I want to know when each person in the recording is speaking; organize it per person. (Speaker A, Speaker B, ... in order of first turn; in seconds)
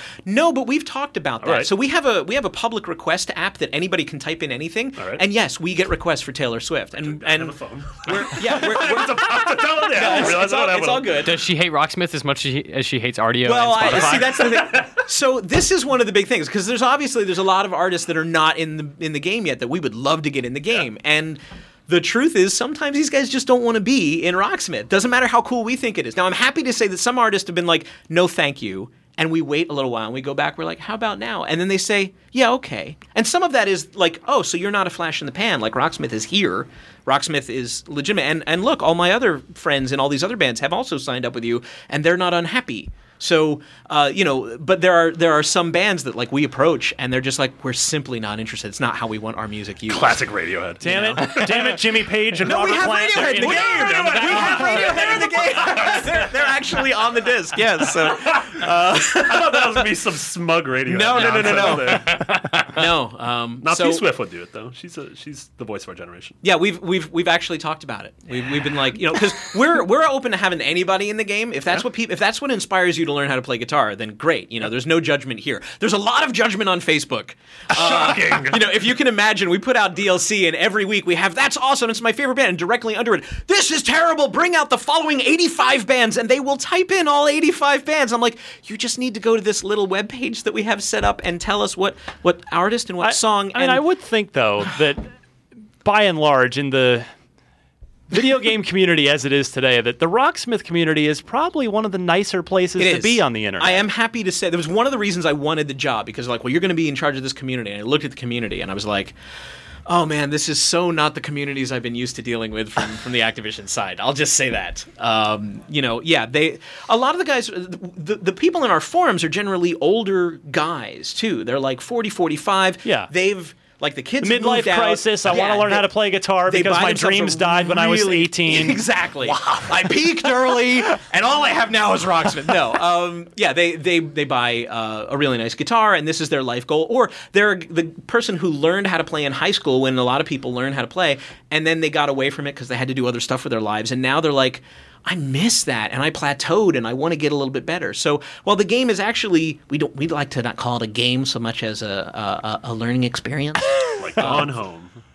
Speaker A: 0.2-11.4, 13.4-50.2, 51.0-51.3, 52.4-59.9, 60.9-64.0, 66.4-93.8, 102.8-109.1, 109.8-125.9, 126.4-154.5
Speaker B: 1.4-1.7, 5.0-5.2, 7.0-11.2, 14.4-14.9, 49.9-51.8, 53.4-56.5, 57.8-62.2, 63.6-66.3, 77.7-78.8, 154.0-155.0
Speaker C: 11.2-14.5, 53.1-55.3, 61.1-62.8
Speaker D: 50.8-53.7, 54.4-54.8, 93.0-95.1, 95.8-97.0, 98.1-103.9, 124.2-128.8